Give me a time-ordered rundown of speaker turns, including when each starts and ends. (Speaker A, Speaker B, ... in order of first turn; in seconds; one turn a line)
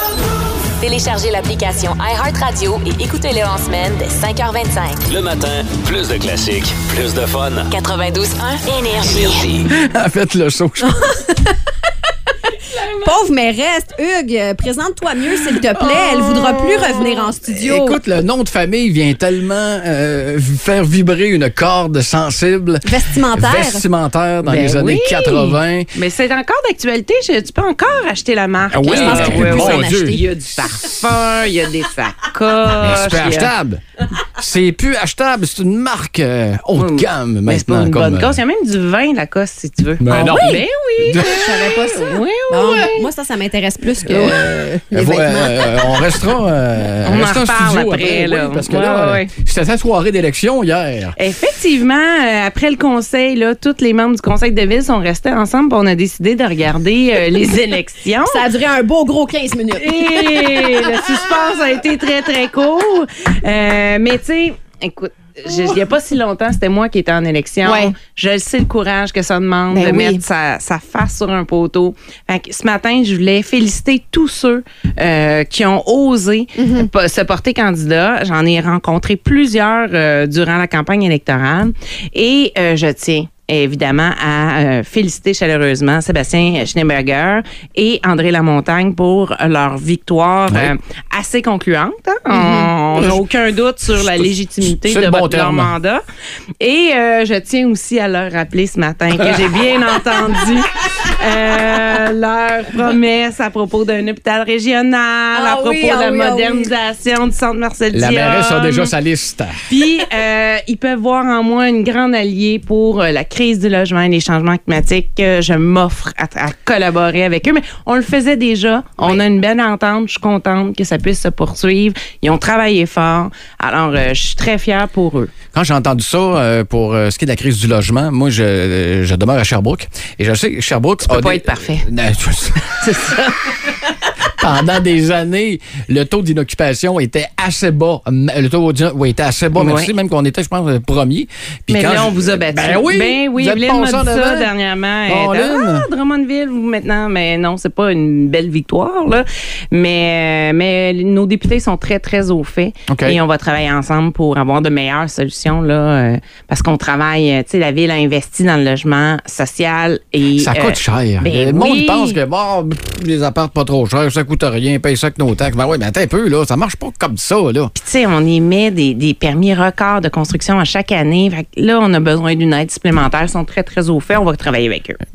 Speaker A: 0.8-5.0
Speaker B: 5.1-7.7
Speaker A: 7.7-9.5
Speaker B: 9.0-9.7
Speaker C: 9.7-11.1
Speaker D: 10.9-11.5
Speaker D: 13.0-18.0
Speaker C: 15.7-25.9
Speaker D: 22.8-23.9
Speaker E: 24.5-33.5
Speaker C: 28.7-30.2
Speaker D: 28.9-30.2
Speaker C: 32.8-33.8
Speaker C: 34.4-38.4
Speaker E: 36.8-43.0
Speaker C: 40.0-41.6
Speaker D: 40.2-40.6
Speaker D: 41.2-46.2
Speaker C: 44.1-44.4
Speaker C: 44.9-51.1
Speaker E: 47.0-49.3
Speaker E: 51.1-58.4
Speaker D: 58.2-60.8
Speaker E: 59.8-96.0
Speaker D: 67.6-67.9
Speaker D: 69.7-70.2
Speaker D: 76.6-76.9
Speaker D: 92.3-92.7
Speaker C: 94.0-95.7
Speaker E: 96.6-108.9
Speaker D: 105.3-106.7
Speaker C: 107.9-109.6
Speaker E: 109.7-125.3
Speaker C: 125.5-132.8
Speaker E: 131.1-131.9
Speaker E: 132.8-133.7
Speaker C: 134.4-144.5
Speaker E: 139.5-139.9
Speaker E: 141.7-162.2
Speaker C: 145.1-145.9
Speaker C: 152.9-153.2
Speaker C: 160.3-167.7
Speaker E: 167.7-175.0